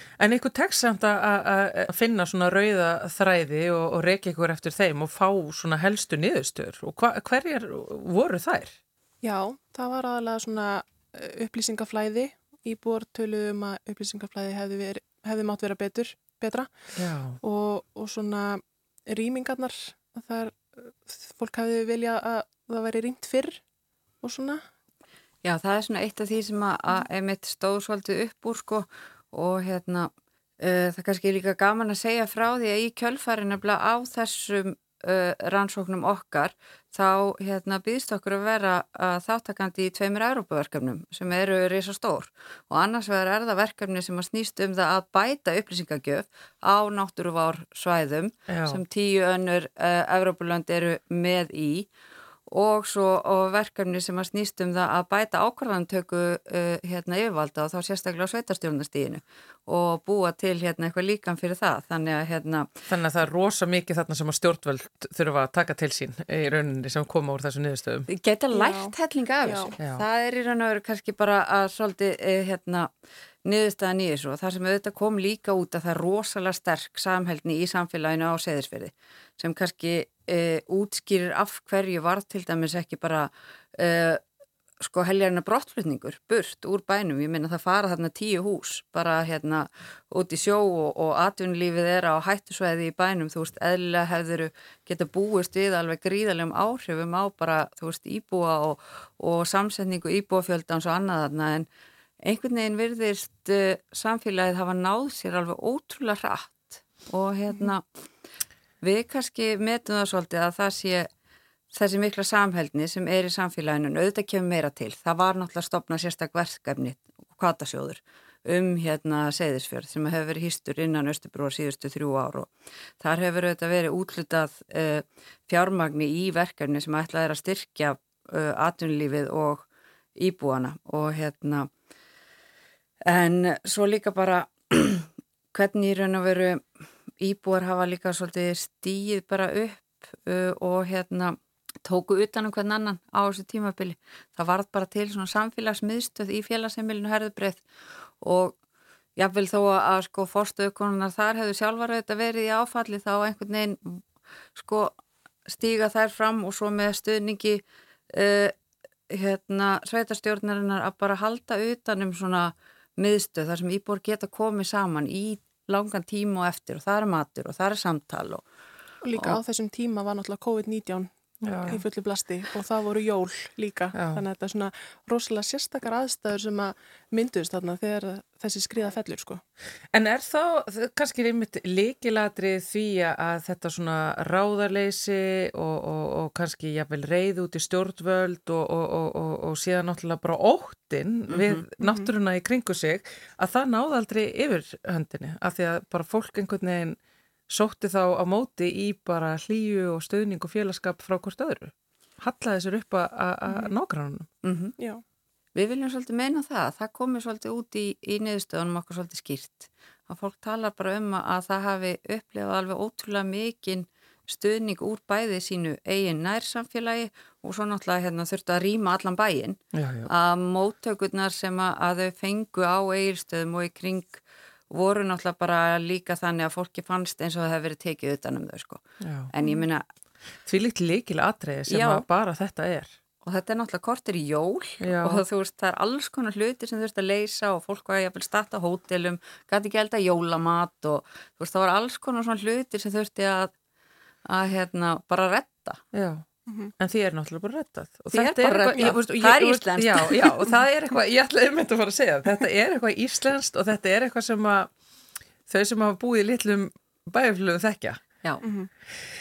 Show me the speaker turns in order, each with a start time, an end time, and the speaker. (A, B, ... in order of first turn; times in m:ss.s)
0:00.2-0:08.8 A
0:09.2-0:23.6 B
0:17.0-0:17.4 A
0:24.2-0:24.6 B
0:25.4-0:51.9 C
0:48.5-0:48.8 A
0:52.5-1:02.7 C
1:02.9-1:08.1 A
1:08.1-1:12.9 C
1:08.5-1:09.8 B
1:13.4-1:24.2 C
1:24.8-1:41.7 C
1:42.2-1:47.8 C
1:48.8-1:51.1 C
1:51.7-2:09.6 C
2:10.2-2:11.7 C
2:13.1-2:16.6 C
2:17.2-2:27.6 C
2:28.2-2:28.6 C
2:29.2-2:34.0 C
2:34.6-2:35.0 C
2:35.5-2:38.5 C
2:39.1-2:48.4 C
2:49.0-2:59.4 B
2:51.4-2:51.8 A
2:54.0-2:54.2 A
2:59.9-3:17.0 A
3:11.3-3:11.6 C
3:11.8-3:12.1 B
3:17.5-3:24.3 A
3:23.5-3:23.7 B
3:24.4-3:24.8 C
3:25.6-3:49.9 C
3:39.7-3:40.1 A
3:49.0-3:49.3 A
3:50.5-3:53.0 A
3:51.7-3:52.0 C
3:53.2-4:03.5 C
3:54.8-3:55.2 A
4:04.3-4:05.8 C
4:05.9-4:06.2 A
4:06.5-4:06.7 B
4:06.8-4:14.7 A
4:08.1-4:10.5 C
4:15.5-4:18.0 A
4:18.4-4:18.7 B